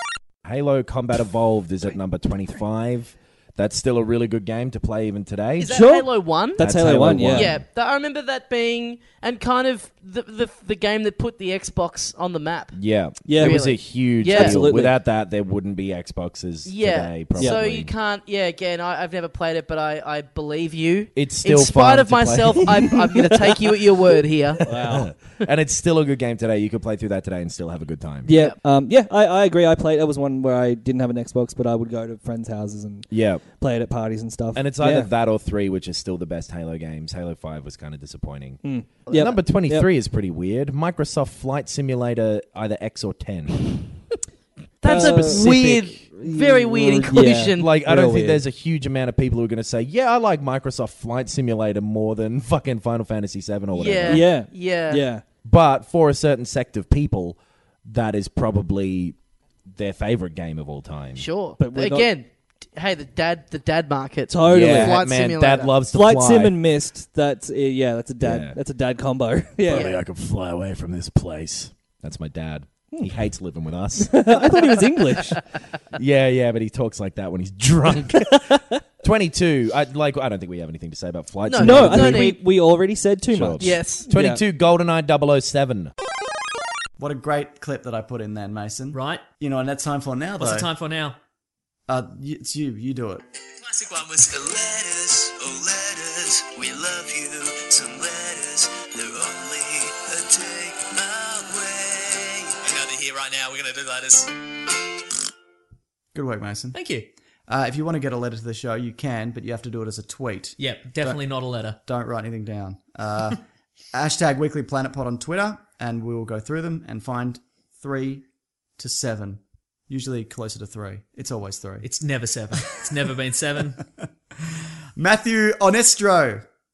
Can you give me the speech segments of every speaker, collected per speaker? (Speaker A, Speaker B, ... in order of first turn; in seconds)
Speaker A: 0.4-5.8, 6.5-7.6, 12.7-17.9, 21.1-22.8, 24.7-28.4, 33.1-33.5, 34.5-43.6, 44.9-46.0, 47.1-54.4, 55.4-59.1, 59.7-61.3, 64.4-66.6, 68.2-68.6, 69.7-74.8, 75.9-78.4, 79.0-82.3, 83.2-85.9
Speaker B: 5.6-14.8, 16.6-25.4, 28.3-28.6, 44.8-47.9, 53.7-55.1, 61.1-65.8, 69.7-70.0, 81.4-82.5, 83.6-84.1
Speaker C: 5.6-7.6, 13.2-15.0, 17.3-17.7, 22.6-23.6, 24.7-25.1, 28.2-35.1, 38.6-39.9, 44.8-48.5, 54.0-55.2, 61.5-62.1, 64.3-65.0, 65.8-69.9, 74.0-75.4, 78.2-78.7, 81.5-84.4
Speaker D: 87.0-90.7, 91.9-93.2, 106.1-106.8, 107.5-111.2, 111.8-113.4, 113.9-118.2, 118.8-121.9, 125.0-126.4
Speaker E: 88.9-89.2, 90.4-91.2, 93.6-94.4, 102.6-104.3, 106.7-107.1, 110.6-111.8, 121.8-123.8
Speaker F: 94.5-102.4